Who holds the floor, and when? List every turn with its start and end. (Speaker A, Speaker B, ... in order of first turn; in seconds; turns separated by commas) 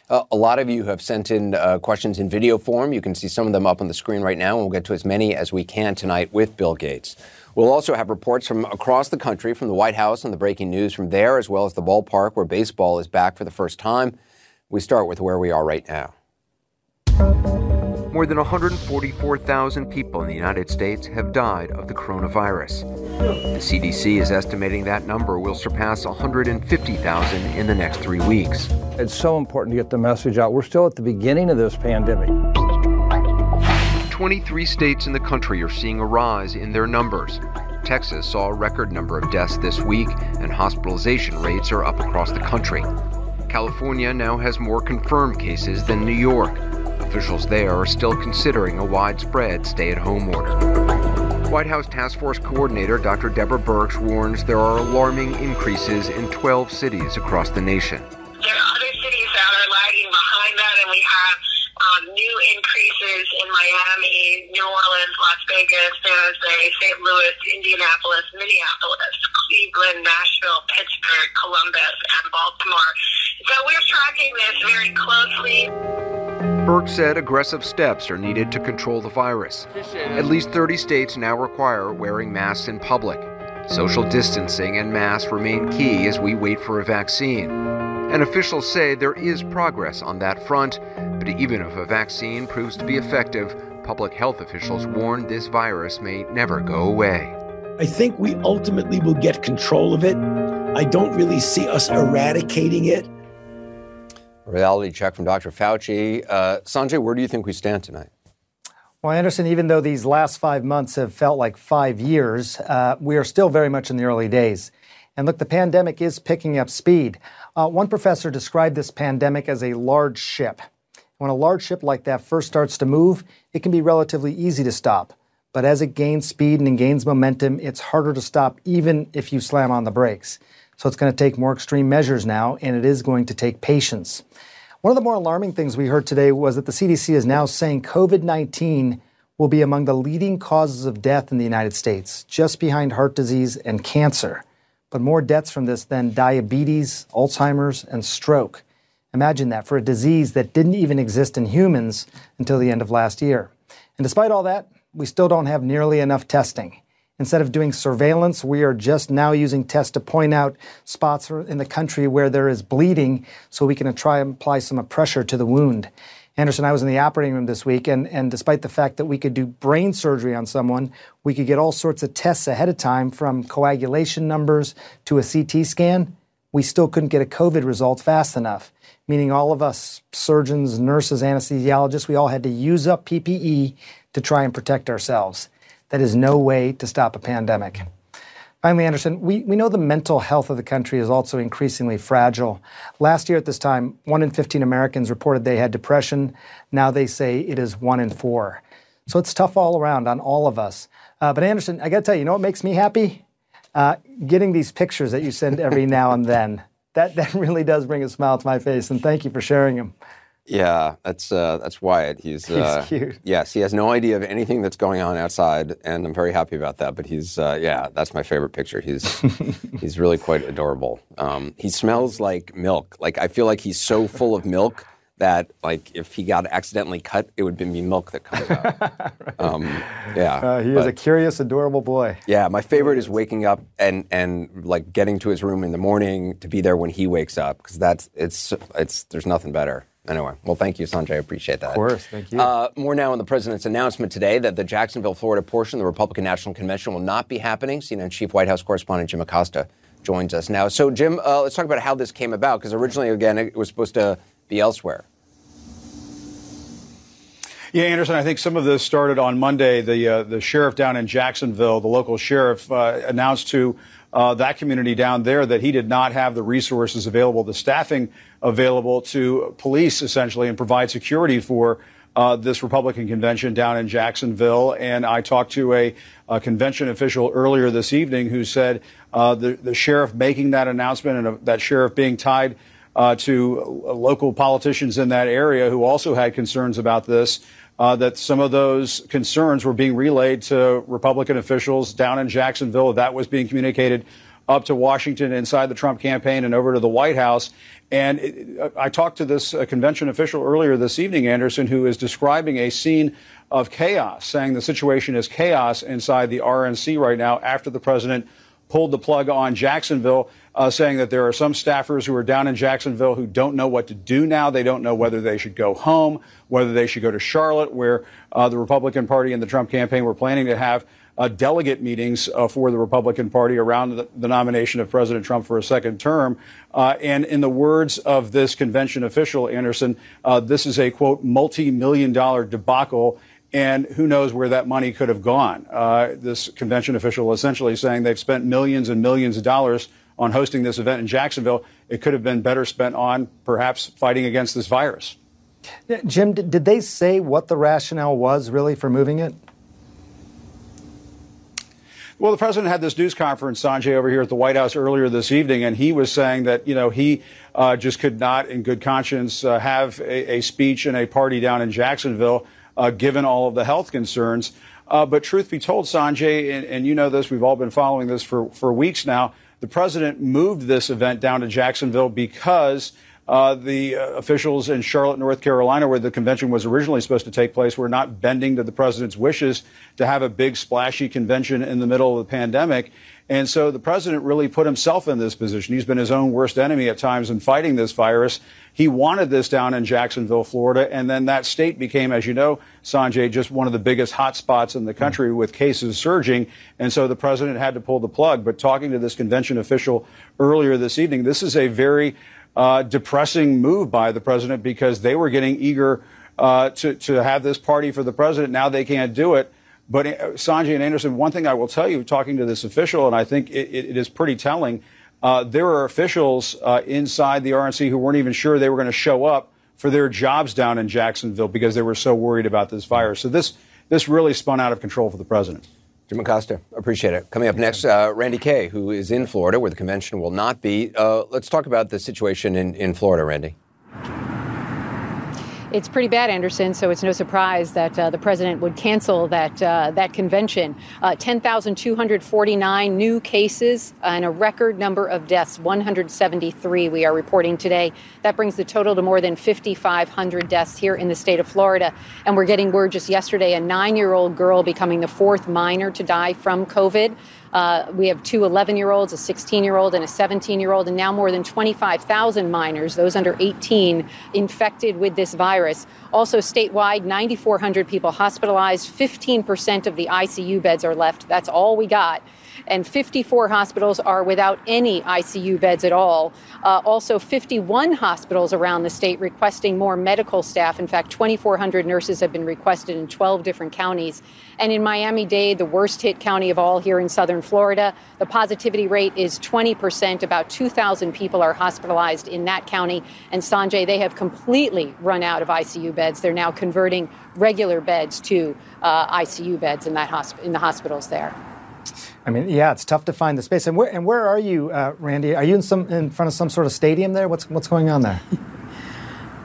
Speaker A: 0.1-14.2, Speaker A: 14.7-16.1, Speaker A: 18.1-22.9, Speaker A: 23.5-28.9, Speaker B: 28.9-32.4, Speaker A: 34.1-42.9, Speaker A: 43.5-50.7, Speaker A: 51.4-58.1, Speaker C: 58.4-75.7, Speaker A: 76.6-97.3, Speaker D: 97.8-100.2, Speaker D: 100.7-103.0, Speaker A: 104.5-108.1, Speaker E: 109.0-120.6, Speaker E: 121.2-134.2, Speaker E: 134.8-187.9, Speaker E: 188.6-203.2, Speaker E: 203.7-209.9, Speaker A: 210.5-230.9, Speaker E: 212.5-213.2, Speaker E: 228.5-229.5, Speaker E: 230.4-232.2, Speaker A: 232.3-241.8, Speaker E: 241.7-242.5, Speaker A: 242.3-255.0, Speaker F: 257.7-345.1, Speaker E: 345.9-349.4, Speaker F: 352.2-425.6, Speaker A: 426.1-433.5, Speaker G: 435.7-501.4, Speaker E: 502.2-508.2